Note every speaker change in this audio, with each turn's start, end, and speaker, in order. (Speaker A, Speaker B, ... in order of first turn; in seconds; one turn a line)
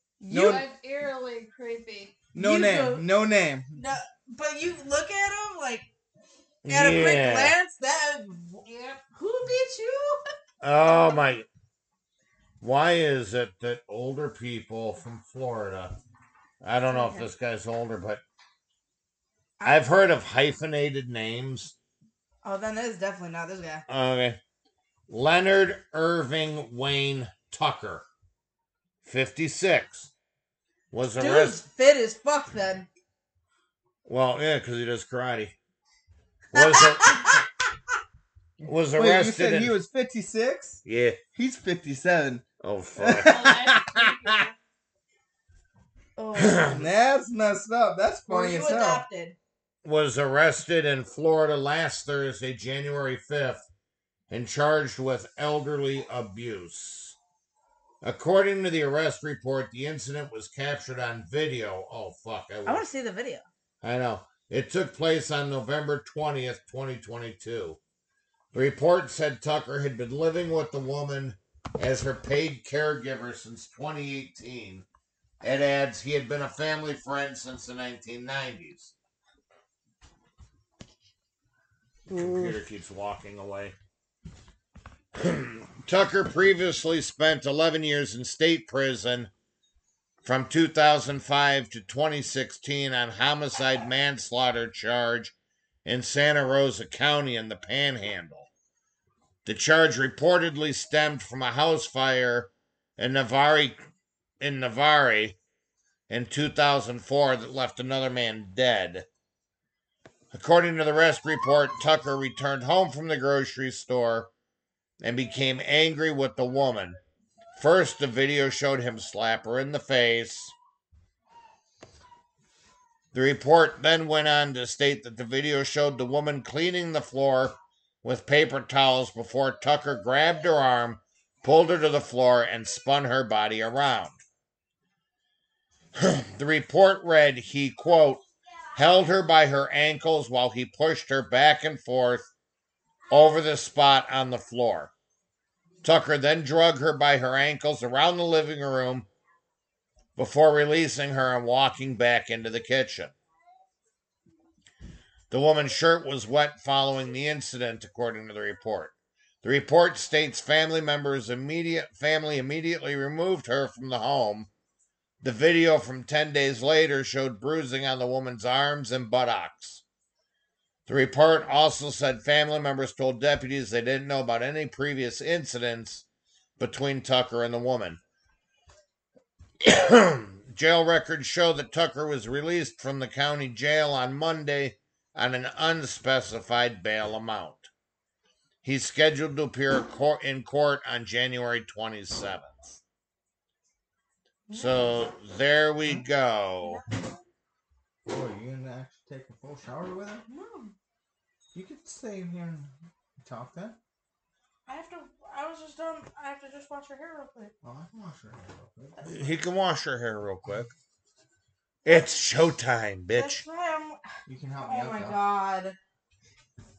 Speaker A: 0.2-0.6
Speaker B: 0.3-0.7
Speaker C: 0.4-2.2
Speaker B: 2.3-3.8
Speaker A: 2.4-3.1
Speaker A: 3.7-5.9
Speaker D: 6.6-7.5
Speaker A: 6.7-8.6
Speaker C: 8.6-9.0
Speaker A: 9.1-10.2
Speaker D: 10.6-11.5
Speaker D: 12.6-16.0
Speaker D: 16.6-18.2
Speaker A: 16.9-17.3
Speaker D: 19.6-21.8
Speaker A: 22.4-23.8
Speaker D: 23.9-24.4
Speaker D: 25.1-28.0
Speaker D: 29.0-30.1
Speaker D: 30.9-31.6
Speaker A: 31.1-32.9
Speaker D: 34.0-35.5
Speaker A: 36.5-37.4
Speaker D: 36.5-37.4
Speaker B: 38.6-40.8
Speaker D: 38.6-39.8
Speaker D: 40.8-41.2
Speaker B: 41.3-43.6
Speaker D: 42.6-44.4
Speaker C: 43.2-44.5
Speaker A: 46.1-46.8
Speaker D: 46.3-46.8
Speaker B: 46.6-49.0
Speaker A: 48.3-49.4
Speaker D: 49.8-53.6
Speaker D: 54.3-57.1
Speaker D: 58.0-62.8
Speaker A: 62.6-63.4
Speaker D: 63.8-67.8
Speaker D: 68.5-74.8
Speaker D: 75.4-78.9
Speaker A: 82.1-82.6
Speaker D: 82.1-83.8
Speaker D: 85.1-89.3
Speaker D: 90.2-98.5
Speaker D: 99.4-103.8
Speaker D: 104.4-105.4
Speaker D: 106.1-109.0
Speaker D: 110.3-114.3
Speaker D: 115.0-117.0
Speaker D: 117.5-120.5
Speaker D: 123.1-134.2
Speaker D: 135.9-138.2
Speaker D: 138.7-142.3
Speaker D: 143.1-144.9
Speaker D: 145.8-149.1
Speaker D: 150.2-153.1
Speaker D: 155.3-164.5
Speaker D: 165.2-169.8
Speaker D: 170.9-176.1
Speaker D: 176.6-178.0
Speaker D: 179.6-187.7
Speaker D: 188.6-192.8
Speaker A: 194.5-195.1
Speaker D: 194.5-196.8
Speaker A: 196.6-197.2
Speaker B: 198.0-200.2
Speaker A: 200.3-200.7
Speaker B: 201.5-203.8
Speaker A: 204.7-207.5
Speaker B: 207.6-209.3
Speaker D: 209.0-210.7
Speaker D: 211.8-213.4
Speaker A: 213.1-214.0
Speaker B: 214.3-215.2
Speaker A: 214.6-215.8